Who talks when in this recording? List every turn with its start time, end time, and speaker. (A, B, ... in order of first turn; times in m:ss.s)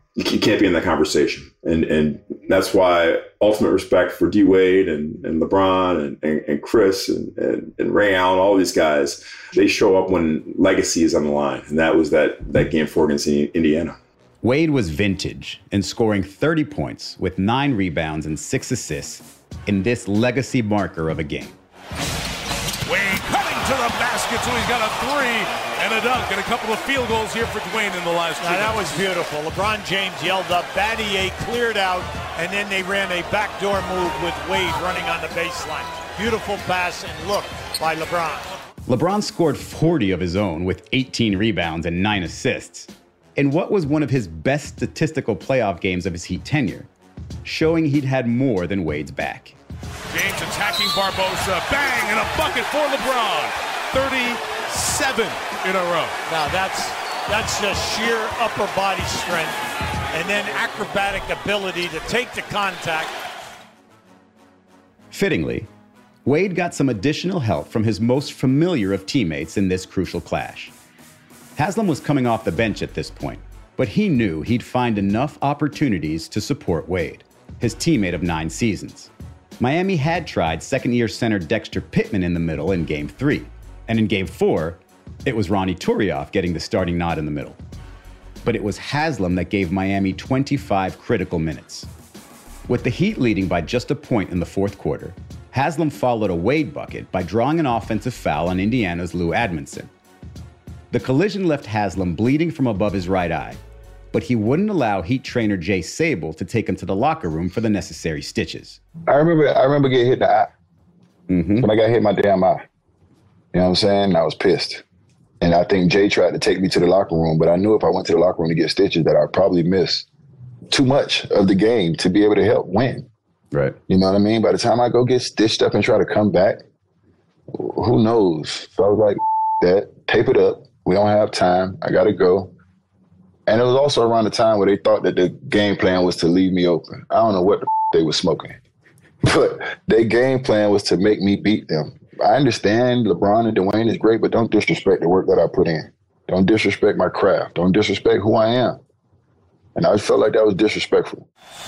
0:00.2-0:14.0 A
0:14.4-0:21.6 B
0:22.9-0:28.8 C
0:28.4-0:38.4 D
0:38.9-0:46.9 B
0:47.4-0:49.6 B
0:50.1-0:56.2 C
0:56.3-0:59.6 D
1:00.1-1:03.1 D
1:05.1-1:05.7 B
1:06.2-1:10.7 B
1:11.6-1:27.6 B
1:28.4-1:31.9 B
1:32.7-1:39.9 B
1:40.9-1:43.6 B
1:44.1-1:48.8 B
1:49.1-1:50.5 E
1:51.3-1:51.7 B
1:51.6-1:52.6 E
1:53.5-1:54.8 E
1:55.4-2:00.1 E
2:00.7-2:03.1 E
2:03.9-2:06.6 E
2:07.5-2:12.5 E
2:13.5-2:18.6 E
2:19.2-2:28.8 E
2:29.8-2:31.3 E